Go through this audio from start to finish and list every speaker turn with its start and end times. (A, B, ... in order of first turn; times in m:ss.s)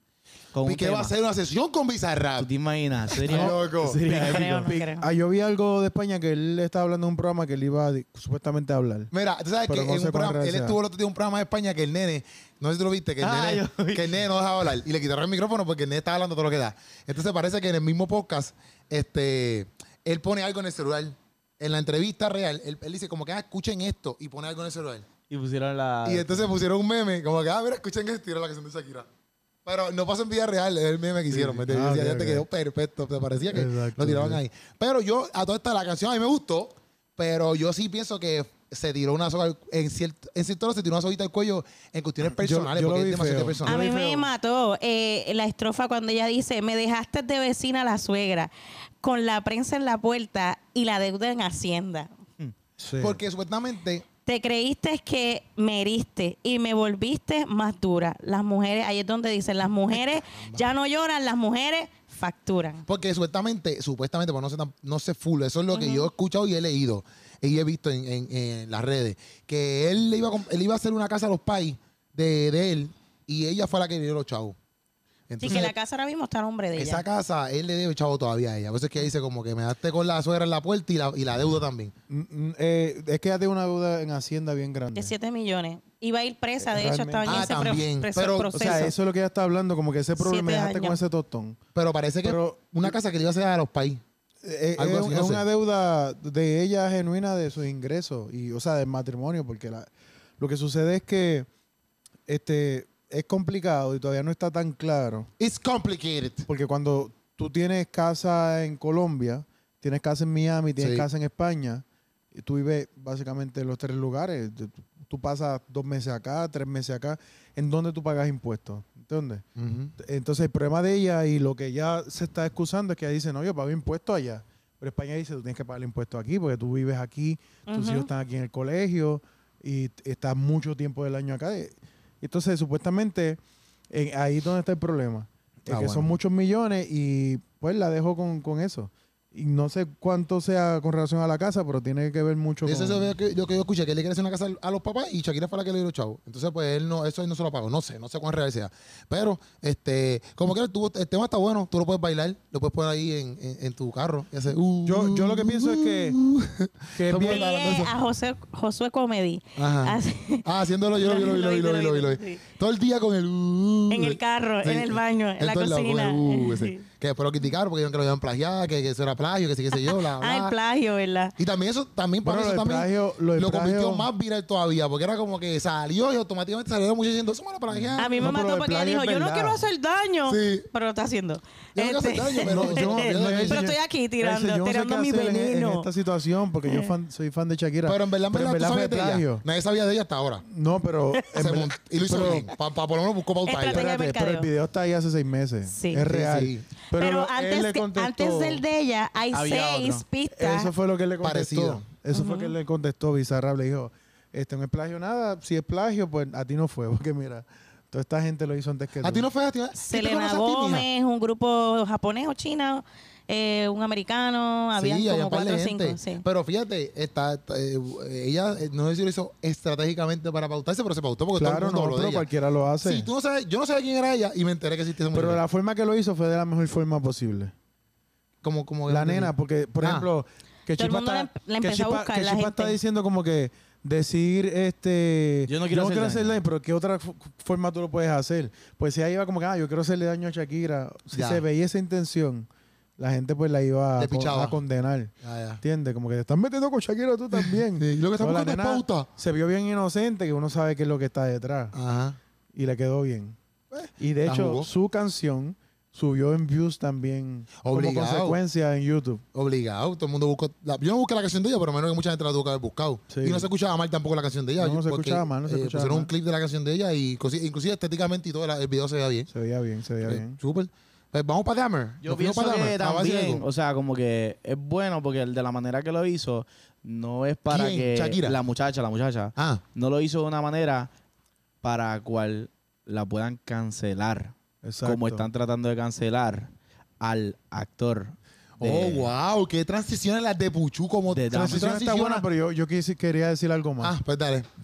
0:00.5-0:01.1 A
0:00.6-0:02.5 B
0:02.4-0:04.8 A
0:03.1-0:04.0 B
0:03.2-0:09.1 C
0:04.0-0:05.1 D
0:09.1-0:25.1 B
0:09.7-0:10.8 C
0:13.2-0:14.1 A
0:25.3-0:26.5 A
0:26.0-0:29.1 B
0:29.6-0:43.8 B
0:31.3-0:32.4 C
0:33.5-0:34.4 C
0:42.3-0:44.3 C
0:43.6-0:52.1 D
0:52.8-0:53.2 C
0:53.0-0:54.0 B
0:54.2-1:02.8 D
1:00.3-1:00.6 B
1:02.9-1:14.6 B
1:05.7-1:06.1 D
1:15.3-1:15.7 B
1:15.4-1:17.0 D
1:16.8-1:21.9 B
1:22.1-1:25.1 C
1:24.9-1:28.9 D
1:26.6-1:27.8 C
1:27.2-1:28.9 B
1:28.5-1:31.6 C
1:30.2-1:31.0 D
1:31.7-1:34.0 B
1:32.2-1:32.9 C
1:34.4-1:41.5 C
1:34.8-1:35.4 B
1:42.3-1:45.3 C
1:45.4-1:46.5 B
1:46.5-1:59.4 C
1:50.8-1:51.0 B
1:59.6-1:59.9 B
2:00.0-2:13.4 C
2:07.7-2:08.1 D
2:13.9-2:23.1 C
2:15.7-2:16.1 B
2:22.6-2:37.9 B
2:34.8-2:36.2 C
2:36.9-2:37.4 C
2:37.2-2:42.4 D
2:39.6-2:50.5 B
2:43.9-2:46.8 D
2:49.7-2:51.3 D
2:51.4-2:58.3 B
2:52.2-2:54.1 C
2:57.7-2:59.6 C
2:58.0-3:05.9 D
3:00.2-3:00.7 B
3:01.8-3:03.6 B
3:02.4-3:09.4 C
3:06.7-3:06.9 D
3:07.8-3:10.4 B
3:10.4-3:12.5 C
3:11.3-3:14.0 B
3:13.4-3:14.5 D
3:13.7-3:18.6 C
3:15.6-3:16.1 D
3:16.0-3:16.6 B
3:16.9-3:20.7 D
3:19.3-3:20.0 A
3:20.3-3:29.3 C
3:21.2-3:21.8 B
3:22.1-3:22.5 D
3:29.0-3:30.9 B
3:29.8-3:36.2 D
3:34.8-3:42.2 B
3:41.4-3:43.1 C
3:42.8-3:45.4 B
3:45.1-3:47.5 C
3:48.4-3:50.1 B
3:48.9-4:11.7 C
3:50.8-3:52.8 D
3:55.5-3:56.4 A
4:01.1-4:01.4 B
4:04.0-4:04.6 B
4:05.2-4:05.6 B
4:07.3-4:09.1 B
4:11.7-4:12.2 B
4:12.5-4:19.2 C
4:14.2-4:14.7 B
4:17.6-4:18.4 B
4:19.3-4:29.3 B
4:23.1-4:23.5 C
4:24.6-4:26.1 C
4:29.3-4:30.4 C
4:30.0-4:33.4 B
4:32.0-4:40.9 A
4:37.5-4:38.4 B
4:39.4-4:39.6 B
4:41.6-4:49.1 A
4:44.6-4:45.3 C
4:48.6-4:52.2 B
4:51.1-4:51.7 A
4:51.3-4:53.9 C
4:53.8-4:54.5 B